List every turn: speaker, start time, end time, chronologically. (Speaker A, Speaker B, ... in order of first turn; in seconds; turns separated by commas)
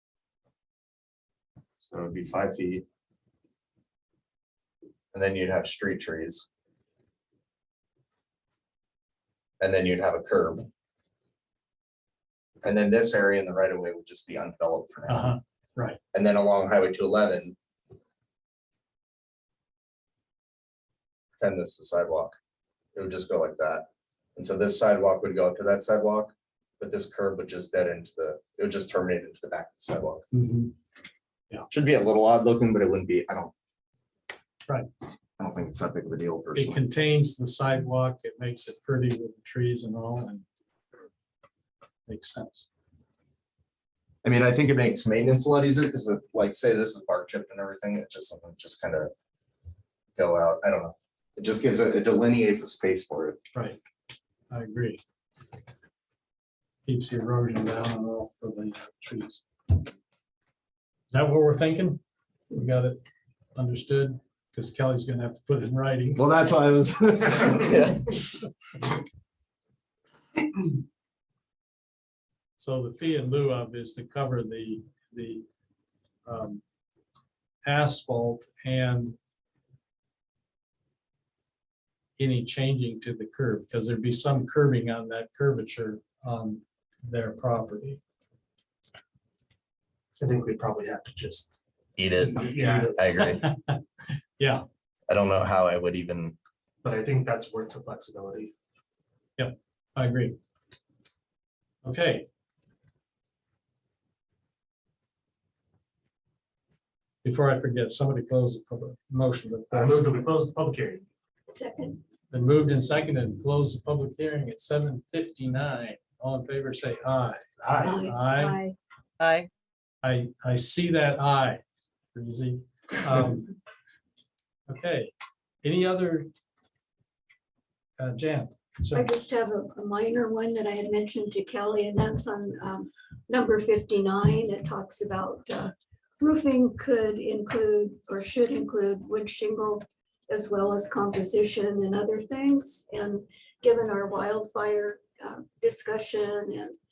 Speaker A: 1.8-2.8, Speaker A: 5.1-6.5, Speaker A: 9.6-10.7, Speaker A: 12.6-15.3, Speaker B: 15.1-16.0, Speaker A: 16.1-17.6, Speaker A: 21.4-22.4, Speaker A: 22.9-30.2, Speaker B: 30.3-30.7, Speaker A: 31.7-33.5, Speaker A: 35.4-36.8, Speaker B: 36.5-40.4, Speaker B: 42.1-42.6, Speaker A: 44.2-49.1, Speaker A: 50.1-53.4, Speaker B: 54.5-55.0, Speaker B: 56.9-59.8, Speaker B: 61.1-62.0, Speaker B: 62.5-63.0, Speaker B: 63.5-66.2, Speaker A: 66.2-68.2, Speaker B: 72.6-75.4, Speaker B: 76.2-76.6, Speaker B: 77.6-79.2, Speaker B: 82.2-88.0, Speaker C: 90.2-91.6, Speaker A: 92.0-93.5, Speaker B: 92.2-93.8, Speaker C: 92.3-93.0, Speaker B: 94.4-94.6, Speaker A: 95.1-96.4, Speaker C: 96.8-98.5, Speaker B: 99.4-100.4, Speaker B: 101.8-102.2, Speaker B: 107.2-110.1, Speaker C: 109.7-111.0, Speaker D: 111.5-112.0, Speaker B: 112.3-117.4, Speaker C: 117.6-118.0, Speaker D: 117.8-118.7, Speaker B: 118.0-118.6, Speaker B: 120.0-121.6, Speaker B: 122.1-123.5, Speaker B: 124.7-126.3, Speaker B: 128.0-129.1, Speaker D: 128.9-146.8